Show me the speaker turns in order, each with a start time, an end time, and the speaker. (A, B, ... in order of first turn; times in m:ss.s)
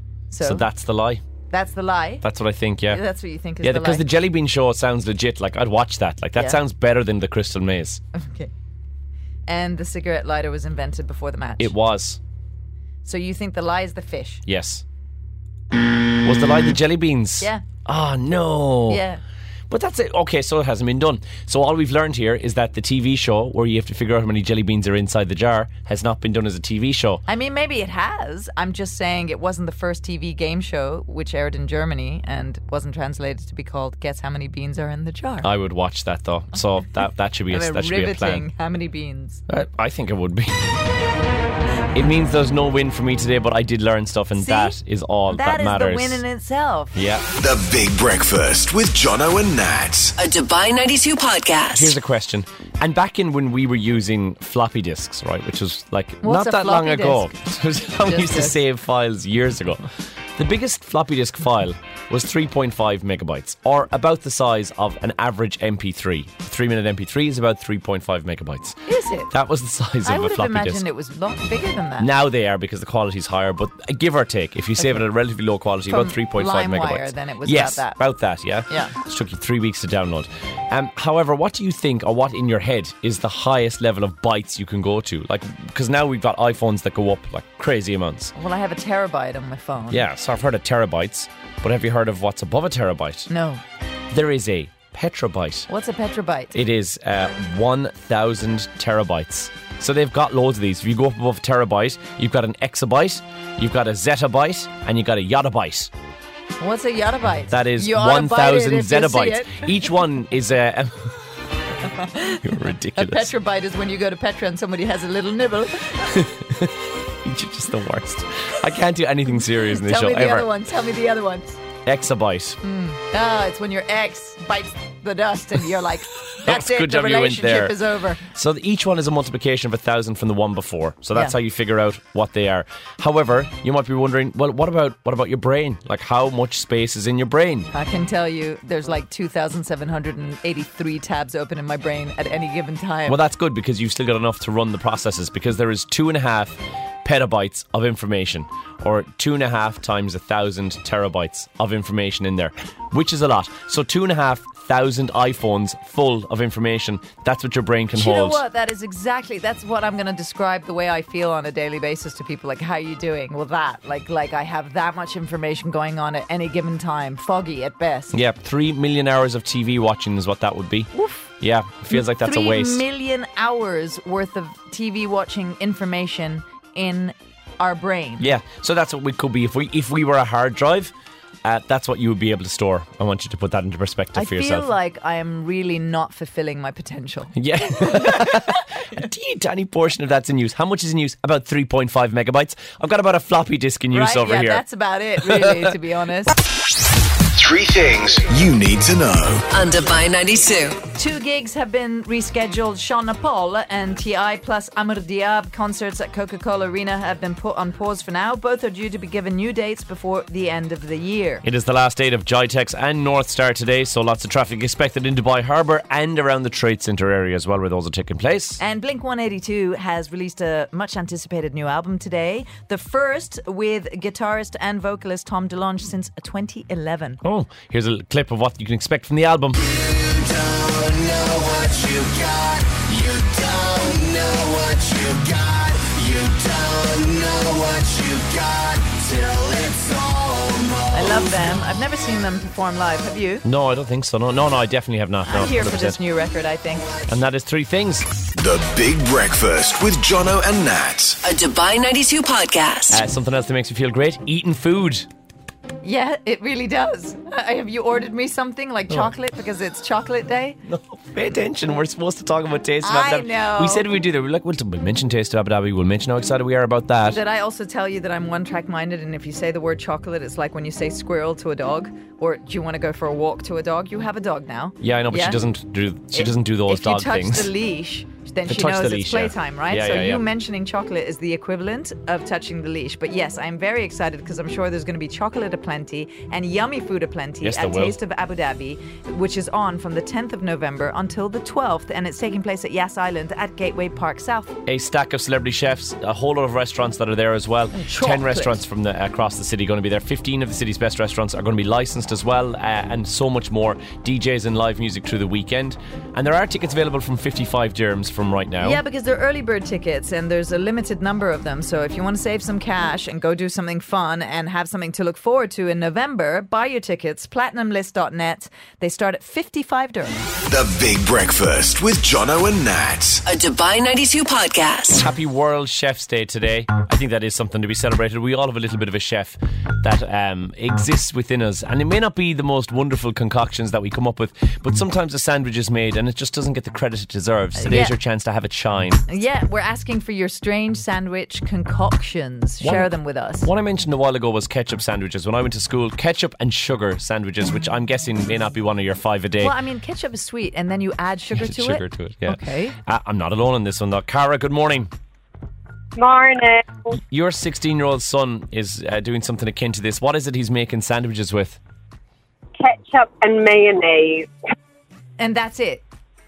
0:00.3-0:00.7 A
0:00.4-0:01.2 B
0:01.5-0:02.3 A
0:02.2-0:03.0 B
0:02.9-0:04.0 A
0:03.6-0:08.0 B
0:08.1-0:08.5 A
0:09.5-0:11.7 A
0:11.6-0:12.2 B
0:13.0-0:14.4 A
0:14.5-0:14.8 B
0:16.2-0:19.0 B
0:18.9-0:19.2 A
0:19.7-0:27.2 B
0:27.3-0:35.5 A
0:35.4-0:38.5 B
0:37.5-0:39.4 A
0:39.5-0:40.7 B
0:41.9-0:46.2 B
0:44.4-0:46.9 A
0:46.9-0:47.2 B
0:47.4-0:50.1 C
0:50.2-0:51.9 D
0:51.7-1:08.8 B
0:56.2-0:57.3 A
0:58.0-0:58.6 A
1:08.9-1:09.3 A
1:09.3-1:10.8 B
1:10.0-1:12.1 A
1:12.0-1:28.3 B
1:15.9-1:18.0 A
1:28.4-1:30.0 A
1:29.9-1:33.3 B
1:33.3-1:33.6 A
1:34.1-1:35.7 B
1:35.7-1:36.5 A
1:36.5-1:45.9 B
1:46.6-1:49.7 A
1:47.5-1:51.2 B
1:51.9-1:52.4 A
1:52.4-1:53.3 B
1:53.0-1:56.1 A
1:56.0-2:00.5 B
1:59.7-2:01.6 A
2:01.8-2:02.6 B
2:02.6-2:08.2 A
2:06.4-2:07.8 B
2:08.3-2:17.7 B
2:17.7-2:23.2 A
2:23.1-2:38.4 B
2:38.0-2:48.2 A
2:48.1-2:52.8 B
2:50.9-2:51.3 A
2:51.9-2:58.3 A
2:58.2-3:00.9 B
3:01.4-3:04.7 B
3:04.2-3:08.6 A
3:07.4-3:14.6 B
3:13.9-3:16.4 A
3:15.2-3:15.8 B
3:17.3-3:19.4 C
3:19.5-3:20.8 D
3:21.0-3:31.4 A
3:31.4-3:38.6 B
3:38.6-3:47.2 A
3:47.2-3:49.6 B
3:49.6-4:00.9 E
4:00.9-4:03.4 A
4:03.4-4:06.0 B
4:05.3-4:07.0 A
4:07.1-4:08.1 B
4:08.4-4:11.2 C
4:11.2-4:13.0 D
4:12.9-4:15.1 B
4:15.8-4:20.6 A
4:20.7-4:27.2 B
4:22.8-4:23.9 A
4:27.1-4:35.4 A
4:34.8-4:37.5 B
4:36.1-4:54.6 A
4:38.5-4:40.2 B
4:47.4-4:48.0 B
4:54.7-5:08.8 B
4:57.7-4:58.6 A
5:08.6-5:20.3 A
5:20.5-5:23.2 C
5:23.3-5:25.0 D
5:25.0-5:39.0 B
5:37.6-5:38.0 A
5:39.1-5:43.5 A
5:42.6-5:42.9 B
5:43.4-5:49.6 B
5:49.4-5:52.8 A
5:51.3-5:54.9 B
5:56.0-5:56.9 F
5:56.9-6:01.6 B
6:02.6-6:04.3 F
6:05.2-6:05.8 A